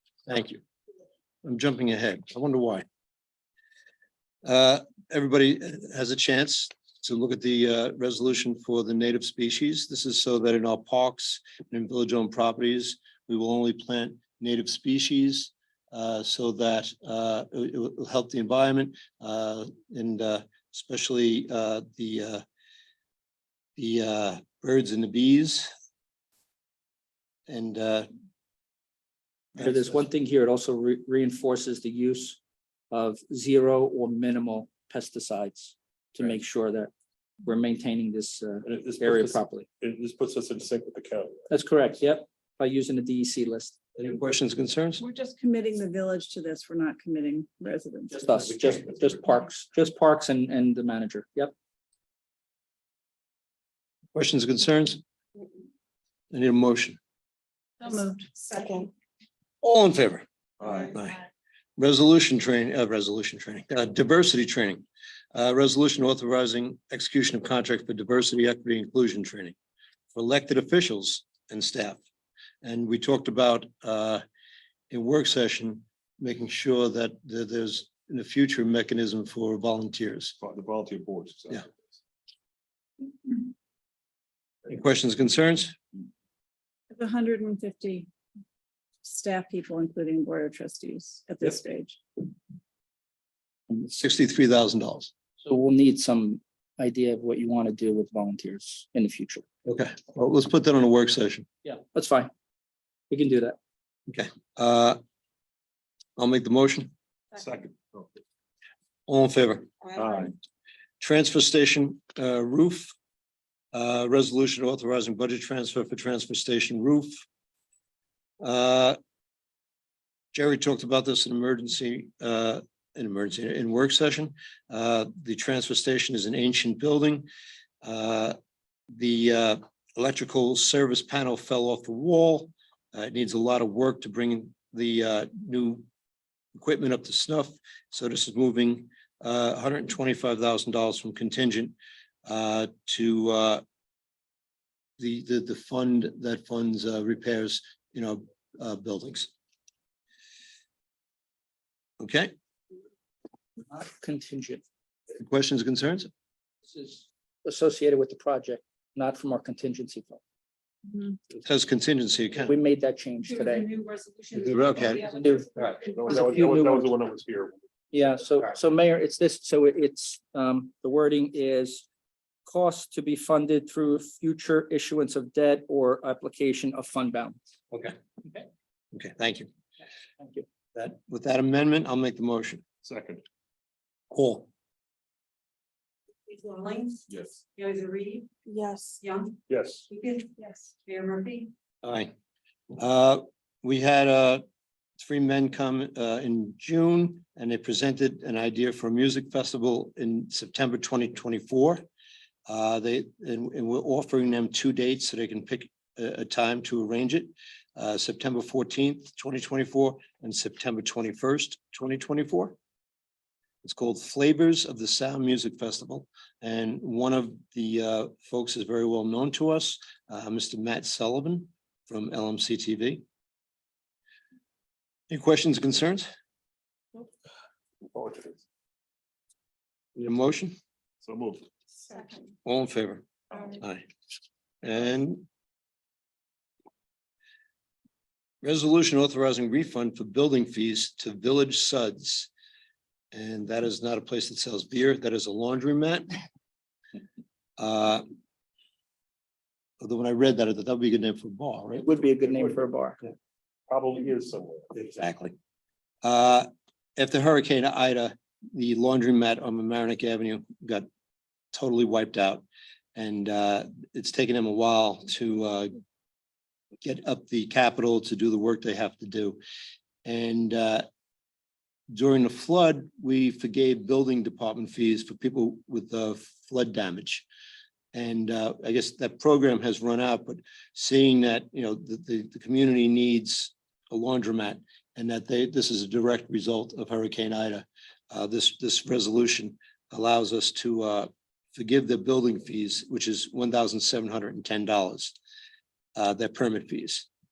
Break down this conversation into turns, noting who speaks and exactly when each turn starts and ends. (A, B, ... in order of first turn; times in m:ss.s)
0:00.3-0:00.6 A
0:01.4-0:02.8 A
0:04.4-0:22.4 A
0:23.8-0:25.7 A
0:27.5-0:28.1 A
0:29.6-0:32.4 B
0:32.9-0:36.9 B
0:37.4-0:39.7 B
0:38.6-0:41.5 C
0:41.5-0:43.8 B
0:44.0-0:45.0 A
0:45.0-0:48.2 D
0:48.1-0:51.5 B
0:54.1-0:55.0 A
0:56.3-0:57.0 A
0:57.8-0:58.8 E
0:57.8-0:58.2 D
0:59.6-1:01.2 A
1:00.6-1:01.0 C
1:01.8-1:09.5 A
1:10.1-1:12.0 A
1:12.6-1:14.2 A
1:14.9-1:20.3 A
1:20.4-1:21.7 C
1:24.7-1:25.8 A
1:26.9-1:28.1 D
1:29.0-1:32.0 D
1:33.7-1:35.1 A
1:35.4-1:39.4 B
1:39.6-1:41.5 A
1:41.6-1:42.3 B
1:43.1-1:43.6 B
1:44.1-1:45.0 A
1:46.2-1:46.9 A
1:47.4-1:48.2 C
1:49.1-1:49.7 A
1:49.9-1:50.3 C
1:51.0-1:52.9 A
1:53.7-1:57.1 A
1:58.4-1:59.0 A
2:00.3-2:07.3 A
2:07.8-2:08.4 A
2:08.9-2:15.8 A
2:16.5-2:23.6 A
2:25.0-2:29.3 A
2:32.0-2:32.3 A
2:33.7-2:34.6 B
2:35.2-2:36.1 A
2:36.7-2:40.2 B
2:41.4-2:42.6 A
2:42.4-2:43.7 B
2:43.2-2:45.7 E
2:44.4-2:45.0 A
2:45.0-2:46.9 B
2:45.8-2:47.6 C
2:47.9-2:51.8 B
2:52.4-2:57.4 B
2:57.7-2:58.0 A
2:58.9-2:59.5 A
3:00.2-3:00.4 B
3:00.7-3:02.6 A
3:02.8-3:03.2 C
3:04.1-3:04.5 A
3:06.3-3:08.3 E
3:07.1-3:07.4 C
3:09.0-3:09.4 E
3:09.5-3:09.8 C
3:09.9-3:11.5 E
3:11.8-3:12.1 A
3:12.8-3:14.4 A
3:15.0-3:21.8 A
3:22.5-3:32.6 A
3:33.6-3:43.0 A
3:45.1-3:46.1 A
3:47.8-3:48.4 C
3:50.0-3:50.6 A
3:51.0-3:51.5 C
3:52.4-3:53.8 A
3:54.6-3:55.2 A
3:58.4-4:02.3 A
4:03.1-4:06.1 A
4:07.6-4:08.0 A
4:09.8-4:11.9 A
4:11.8-4:13.0 B
4:12.0-4:12.7 C
4:13.7-4:14.8 C
4:14.8-4:15.3 A
4:16.0-4:20.9 A
4:21.5-4:22.4 A
4:22.9-4:25.8 A
4:26.8-4:29.4 A
4:30.0-4:30.8 A
4:31.9-4:37.2 A
4:37.9-4:55.2 A
4:56.0-4:57.1 A